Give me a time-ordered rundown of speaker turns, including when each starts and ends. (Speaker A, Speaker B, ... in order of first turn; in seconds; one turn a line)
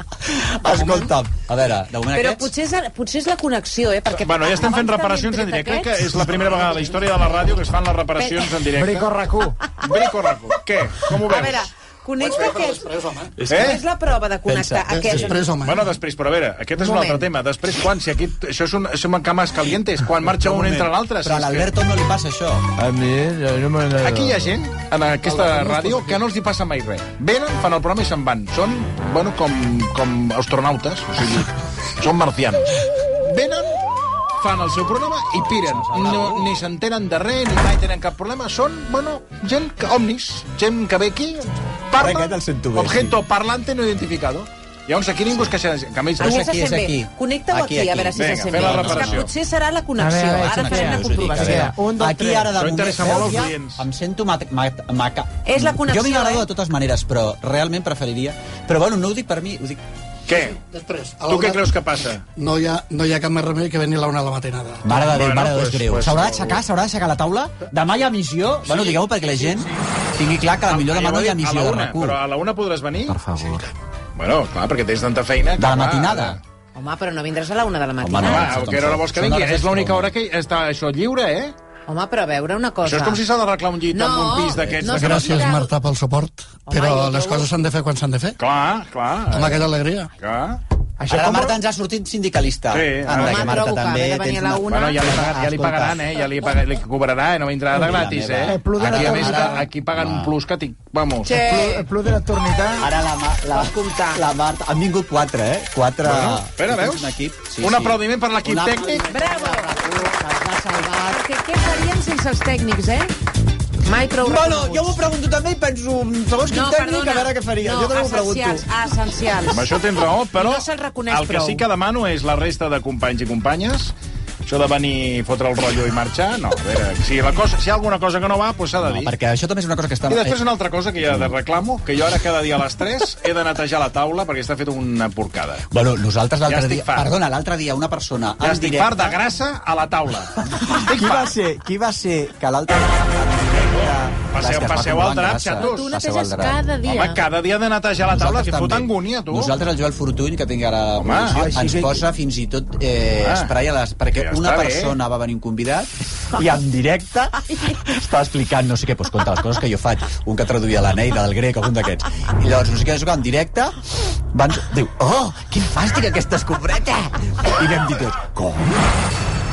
Speaker A: 0.2-2.5
Speaker B: 0.7-1.1
Speaker B: 2.1-7.0
Speaker C: 4.2-9.1
Speaker B: 8.2-8.5
Speaker D: 8.7-9.6
Speaker C: 9.8-11.7
Speaker B: 11.1-12.9
Speaker E: 12.2-13.3
Speaker A: 13.4-13.8
Speaker B: 13.4-15.4
Speaker C: 13.5-13.8
Speaker A: 14.5-15.4
Speaker E: 15.1-15.9
Speaker C: 15.6-21.7
Speaker B: 16.8-17.3
Speaker A: 20.2-22.7
Speaker D: 22.8-24.3
Speaker C: 23.9-33.8
Speaker C: 34.4-46.5
Speaker A: 35.3-36.5
Speaker A: 42.0-43.2
Speaker A: 46.2-49.3
Speaker B: 46.2-51.7
Speaker C: 48.1-49.3
Speaker D: 50.0-52.5
Speaker A: 50.4-59.8
Speaker C: 52.5-53.8
Speaker D: 53.0-53.4
Speaker B: 55.5-56.5
Speaker C: 60.3-60.6
Speaker E: 60.3-61.7
Speaker C: 61.3-62.2
Speaker E: 62.4-65.0
Speaker A: 64.8-72.2
Speaker C: 65.0-66.6
Speaker C: 68.6-69.6
Speaker C: 70.7-73.2
Speaker A: 73.0-73.7
Speaker C: 74.2-76.4
Speaker A: 75.5-76.4
Speaker B: 76.7-78.7
Speaker A: 78.0-80.1
Speaker C: 78.2-81.5
Speaker B: 81.9-83.2
Speaker C: 82.8-85.4
Speaker B: 83.9-85.7
Speaker E: 84.8-88.4
Speaker B: 86.7-87.5
Speaker C: 88.4-89.7
Speaker E: 89.3-90.1
Speaker C: 90.2-90.6
Speaker D: 91.0-91.6
Speaker A: 91.1-96.0
Speaker C: 92.7-93.6
Speaker B: 93.1-95.2
Speaker C: 94.7-101.4
Speaker A: 97.7-100.3
Speaker D: 98.5-99.7
Speaker B: 101.2-101.9
Speaker D: 101.3-102.9
Speaker A: 102.8-111.2
Speaker B: 103.5-104.2
Speaker C: 106.0-109.0
Speaker B: 109.1-109.8
Speaker B: 110.9-113.1
Speaker B: 113.8-115.0
Speaker A: 114.2-118.7
Speaker B: 116.5-119.7
Speaker C: 119.5-129.1
Speaker B: 120.3-121.6
Speaker A: 128.8-130.4
Speaker C: 130.1-135.7
Speaker A: 131.0-131.3
Speaker A: 135.7-139.2
Speaker C: 136.5-137.1
Speaker C: 138.4-141.3
Speaker A: 140.3-146.6
Speaker C: 143.8-145.9
Speaker B: 145.5-147.2
Speaker C: 146.8-149.6
Speaker A: 148.1-163.8
Speaker C: 151.0-151.4
Speaker D: 151.3-152.0
Speaker C: 153.2-153.5
Speaker C: 154.1-155.0
Speaker A: 164.3-168.9